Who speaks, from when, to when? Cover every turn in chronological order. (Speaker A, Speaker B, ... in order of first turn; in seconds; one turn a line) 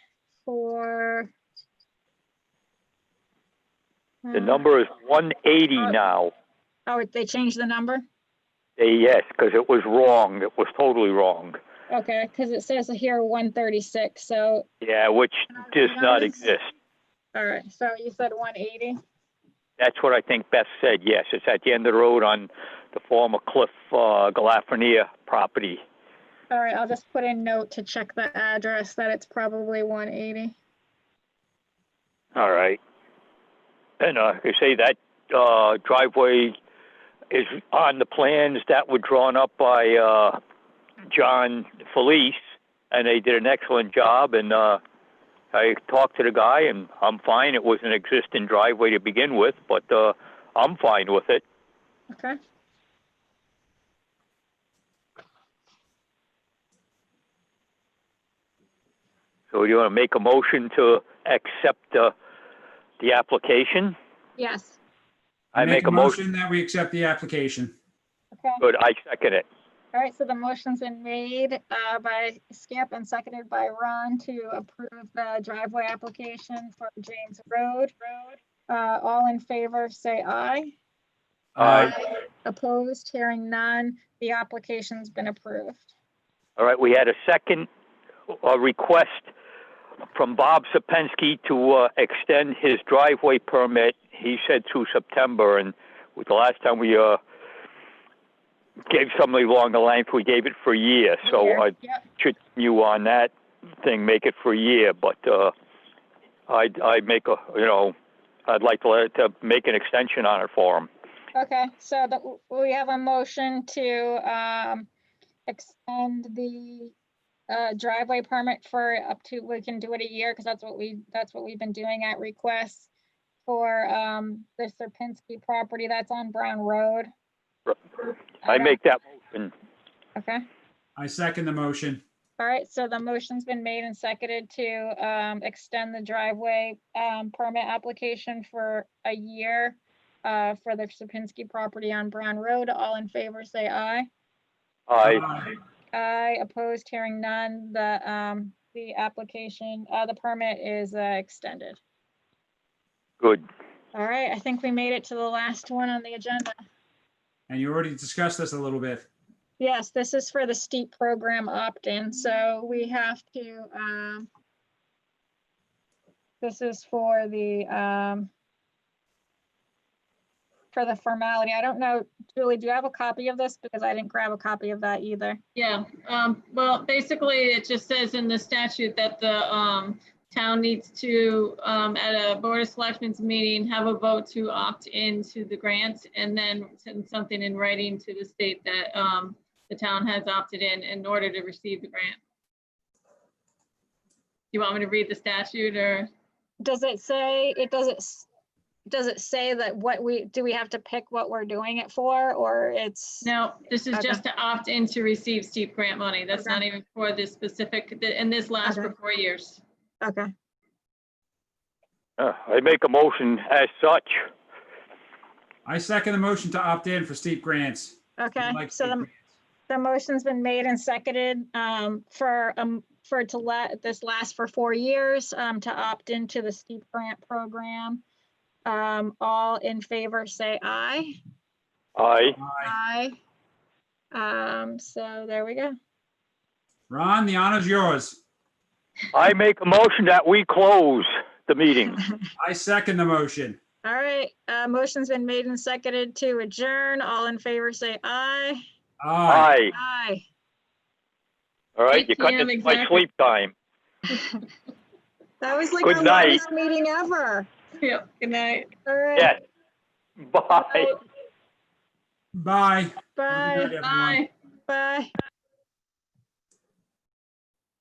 Speaker A: 0.4-1.3
Speaker A: 4.2-4.7
Speaker B: 4.3-6.3
Speaker A: 6.9-8.0
Speaker B: 8.8-11.6
Speaker A: 11.9-14.6
Speaker B: 14.8-16.7
Speaker A: 15.5-16.5
Speaker A: 17.3-19.0
Speaker B: 19.8-25.8
Speaker A: 26.5-30.6
Speaker B: 32.4-32.8
Speaker B: 34.0-36.5
Speaker B: 37.3-40.4
Speaker B: 41.1-42.4
Speaker B: 42.9-44.8
Speaker B: 45.5-51.4
Speaker A: 52.1-52.4
Speaker B: 59.5-62.1
Speaker B: 63.0-63.9
Speaker A: 64.4-64.8
Speaker B: 65.5-66.2
Speaker C: 65.5-67.7
Speaker A: 68.3-68.6
Speaker B: 68.6-69.5
Speaker A: 69.9-80.7
Speaker C: 81.5-81.9
Speaker B: 81.6-81.9
Speaker A: 81.6-85.9
Speaker B: 86.6-87.7
Speaker B: 88.3-89.3
Speaker B: 90.1-97.2
Speaker B: 98.9-105.5
Speaker A: 101.2-102.0
Speaker B: 106.5-107.9
Speaker B: 108.5-110.9
Speaker A: 111.3-114.9
Speaker A: 115.5-116.9
Speaker A: 117.5-122.9
Speaker A: 123.4-127.1
Speaker A: 128.4-128.8
Speaker B: 128.5-129.5
Speaker A: 130.2-130.4
Speaker C: 131.0-132.0
Speaker A: 132.4-144.1
Speaker B: 144.9-145.3
Speaker C: 145.0-145.5
Speaker A: 145.9-151.8
Speaker A: 153.9-156.6
Speaker C: 157.5-159.1
Speaker A: 159.6-164.3
Speaker A: 166.4-168.3
Speaker A: 170.7-175.4
Speaker D: 175.6-192.2
Speaker D: 194.5-196.1
Speaker A: 196.6-198.3
Speaker A: 198.9-203.3
Speaker D: 203.2-209.6
Speaker A: 203.9-204.2
Speaker A: 206.3-206.6
Speaker A: 208.6-208.9
Speaker A: 210.0-210.3
Speaker B: 212.2-214.2
Speaker C: 215.7-219.1
Speaker A: 218.2-219.1
Speaker A: 219.7-228.0
Speaker A: 228.7-231.2
Speaker B: 232.0-232.4
Speaker C: 232.4-232.7
Speaker A: 232.6-233.2
Speaker A: 234.1-235.8
Speaker C: 236.9-238.2
Speaker B: 239.1-242.0
Speaker C: 242.4-243.6
Speaker A: 243.8-248.6
Speaker C: 249.0-249.5
Speaker B: 249.3-249.7
Speaker A: 249.7-250.2
Speaker B: 251.8-253.5
Speaker D: 251.9-253.0
Speaker A: 254.1-254.4
Speaker A: 255.4-257.5
Speaker B: 255.8-256.4
Speaker D: 257.8-258.7
Speaker A: 258.9-259.3
Speaker B: 260.2-260.9
Speaker C: 262.3-264.2
Speaker A: 263.2-263.8
Speaker D: 263.7-264.3
Speaker A: 264.7-265.1